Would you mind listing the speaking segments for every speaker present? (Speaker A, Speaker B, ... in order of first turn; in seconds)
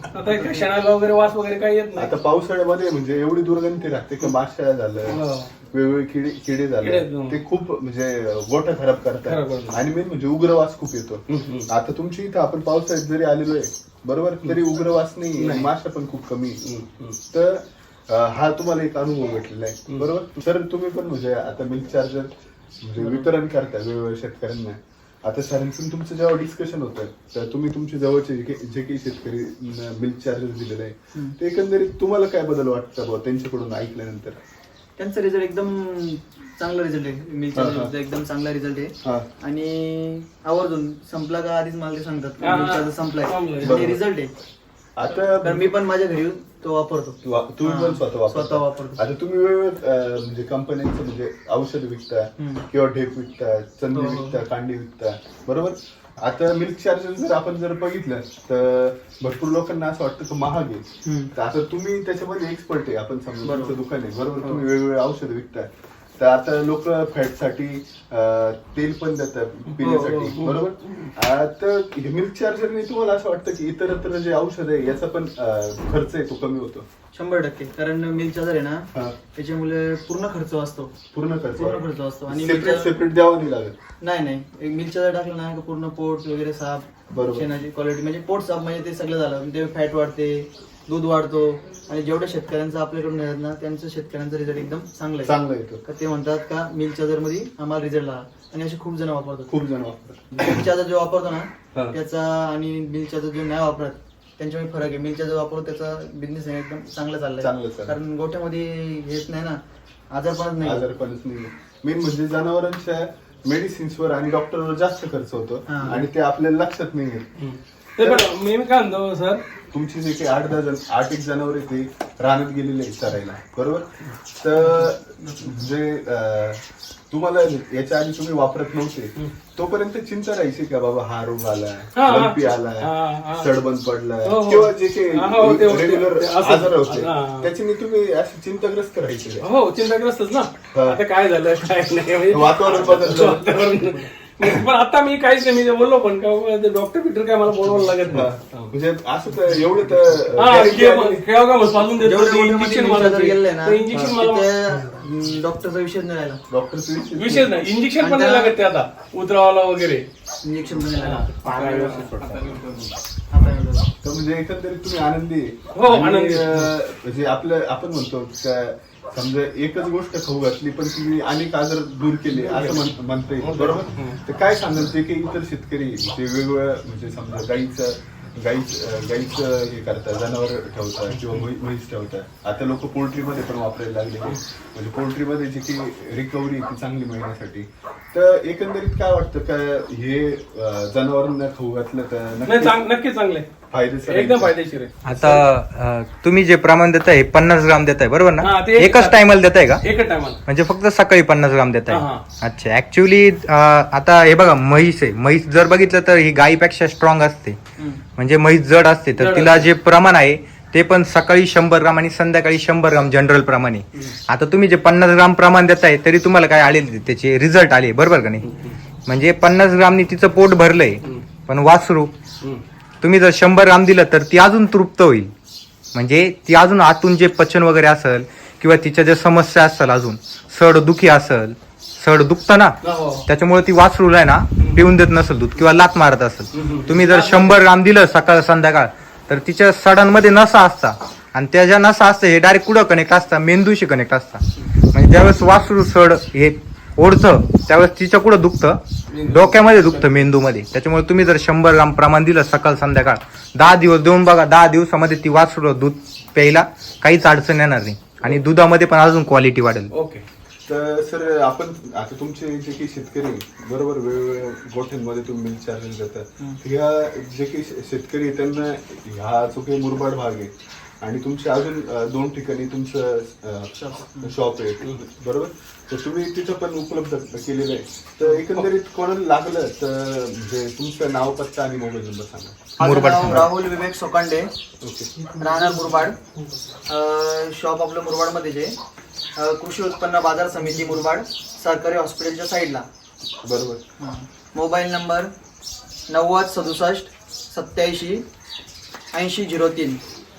Speaker A: 0.1-2.1, 5.1-5.5, 6.8-7.4, 9.2-9.8, 11.3-11.7, 15.4-15.7, 16.6-17.2, 23.0-23.3, 42.4-43.9, 117.4-119.4, 132.0-133.5, 134.2-137.5, 139.4-148.7, 150.3-154.9, 157.2-160.1, 160.9-162.9, 165.8-166.7, 172.3-174.2, 181.1-181.4, 192.4-193.5, 194.1-195.4, 198.4-199.3, 199.8-200.4, 201.9-202.2, 209.2-209.7, 218.4-218.8, 232.8-233.2, 234.6-234.8, 236.5-237.6, 249.1-250.2, 259.9-260.2, 278.3-278.7, 285.2-286.6
Speaker B: 0.3-0.7, 35.0-44.3, 45.1-49.0, 52.4-52.6, 53.9-54.4, 61.0-61.3, 63.4-63.8, 69.8-70.4, 77.1-80.9, 81.5-83.0, 84.0-99.5, 100.4-109.6, 110.1-110.9, 115.7-116.0, 124.5-125.7, 152.0-156.4, 158.0-158.6, 160.4-162.1, 163.3-163.9, 207.8-208.0, 273.8-274.3, 282.8-284.5, 285.4-286.2, 286.9-288.7, 289.4-292.9, 294.0-295.3, 296.1-298.2, 299.1-300.0
Speaker C: 2.0-5.2, 5.7-16.6, 17.3-34.4, 37.5-37.9, 43.6-44.0, 45.0-45.7, 47.2-76.8, 81.1-83.7, 87.1-87.5, 95.2-95.8, 99.5-100.6, 107.4-108.0, 110.6-117.3, 118.0-118.3, 119.7-123.8, 124.4-139.4, 140.7-141.0, 142.3-143.6, 148.1-151.2, 156.5-157.6, 164.0-192.8, 193.7-194.5, 260.7-282.7, 284.8-285.1, 293.4-293.8
Speaker D: 161.5-162.5, 195.0-199.8, 200.5-207.6, 208.2-218.5, 219.1-222.1, 223.0-225.3, 225.9-232.8, 233.3-259.9, 282.8-283.5